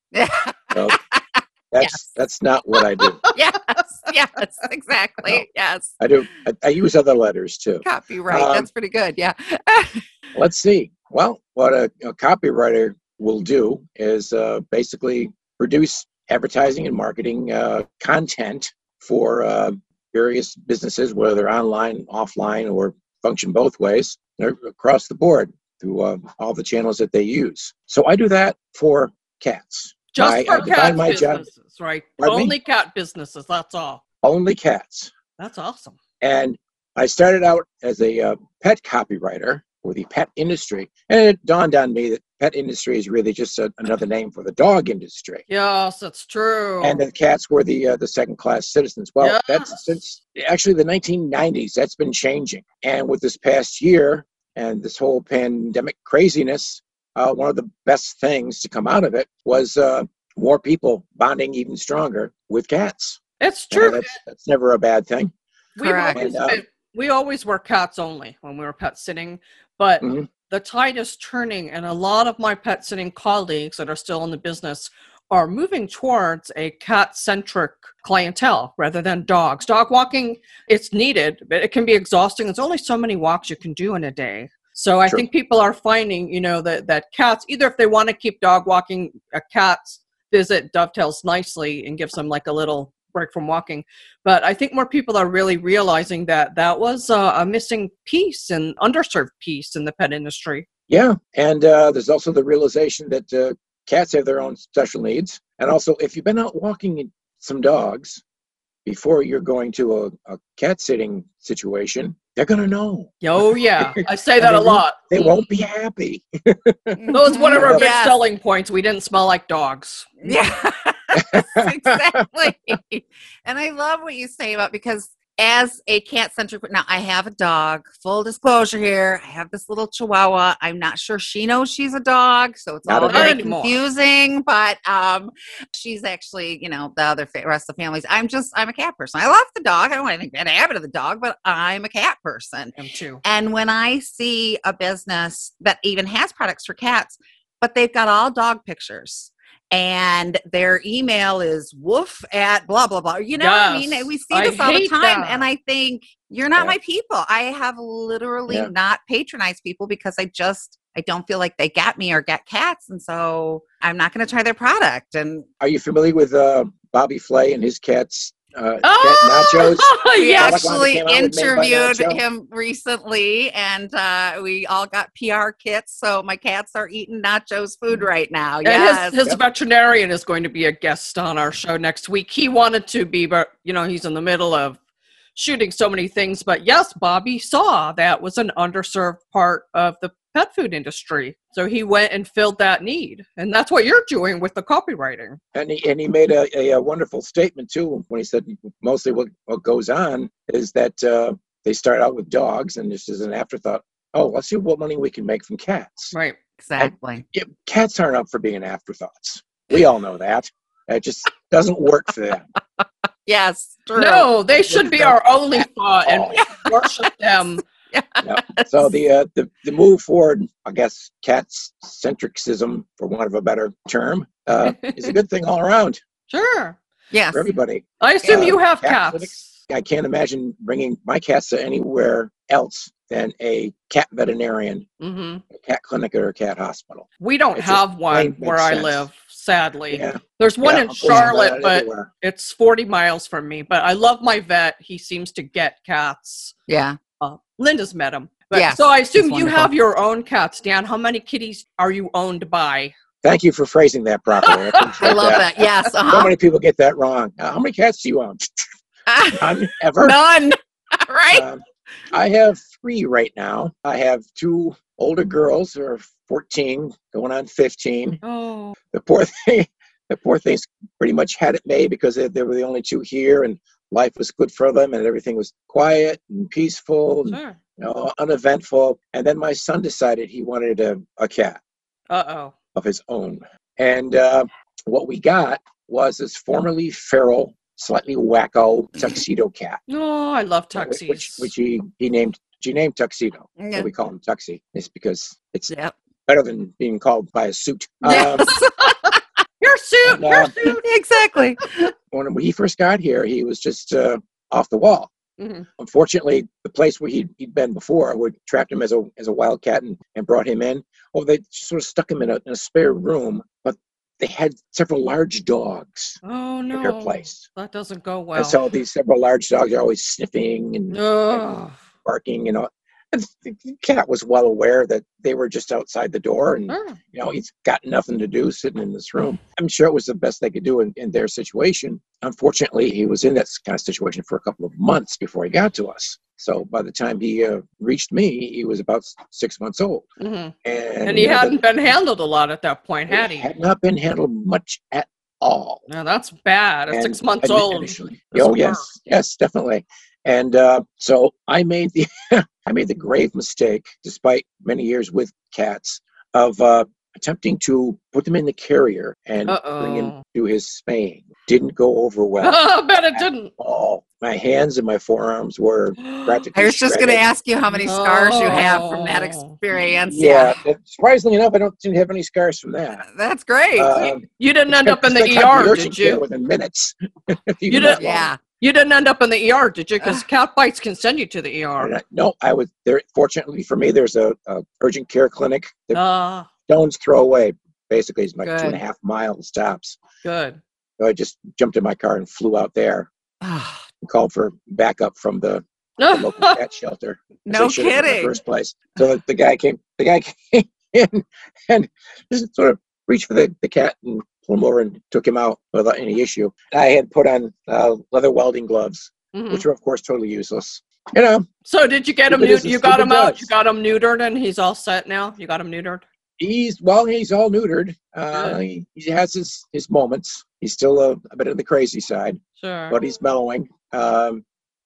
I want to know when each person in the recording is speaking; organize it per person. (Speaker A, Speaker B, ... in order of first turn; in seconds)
Speaker A: 0.1-2.0, 3.3-6.0, 7.8-10.0, 65.8-66.2, 117.0-118.2, 120.2-165.5, 170.1-179.2, 206.6-207.2, 213.2-214.3, 217.9-218.9, 227.1-227.5, 228.2-228.5, 241.1-241.4, 246.7-247.0, 248.5-249.7, 255.0-256.3, 259.1-261.4, 293.6-293.9, 298.0-299.2, 300.6-301.9, 366.5-370.6, 373.0-374.1, 378.0-378.4, 388.4-388.8, 393.4-393.8, 397.4-398.3
Speaker B: 0.7-1.0, 1.7-3.2, 6.0-8.7, 10.3-31.4, 32.2-32.5, 34.2-35.1, 36.2-45.4, 46.8-65.3, 66.1-66.6, 70.0-70.3, 100.9-108.2, 108.8-113.2, 113.8-117.0, 117.6-117.9, 121.2-122.3, 132.8-133.4, 165.6-172.2, 195.5-206.1, 206.8-212.4, 214.7-216.4, 218.2-226.0, 227.3-234.9, 235.5-239.1, 239.9-242.1, 253.2-255.4, 256.1-258.6, 259.3-260.2, 261.3-268.2, 268.9-281.6, 282.7-289.8, 290.7-295.7, 296.3-298.5, 300.0-300.5, 302.1-305.1, 305.8-316.2, 316.7-317.5, 318.4-321.5, 322.0-340.1, 340.6-341.6, 343.1-345.8, 346.9-367.2, 370.1-373.0, 373.8-378.3, 381.8-386.0, 386.7-390.0, 391.0-393.1, 394.0-411.4, 412.3-413.5, 416.4-424.4
Speaker C: 30.1-34.0, 35.4-36.0, 45.5-47.0, 49.2-49.8, 63.4-64.2, 65.8-100.7, 113.2-115.2, 117.1-120.1, 133.1-133.8, 142.8-143.2, 153.4-155.4, 168.8-170.7, 178.6-184.8, 185.3-195.4, 213.9-217.6, 224.8-225.1, 226.3-226.8, 228.0-229.5, 235.0-235.4, 237.2-246.5, 247.2-252.9, 254.4-255.3, 268.2-268.8, 277.3-277.6, 282.1-282.5, 289.9-291.5, 298.6-300.9, 305.4-305.7, 316.2-318.6, 320.9-321.8, 326.7-327.0, 340.2-343.5, 345.9-348.9, 359.5-360.2, 362.4-363.5, 366.0-366.4, 367.7-369.6, 374.4-376.2, 377.7-381.9, 385.9-386.5, 390.2-390.6, 396.0-396.6, 409.3-409.6, 411.6-416.0, 418.3-418.6, 422.6-423.0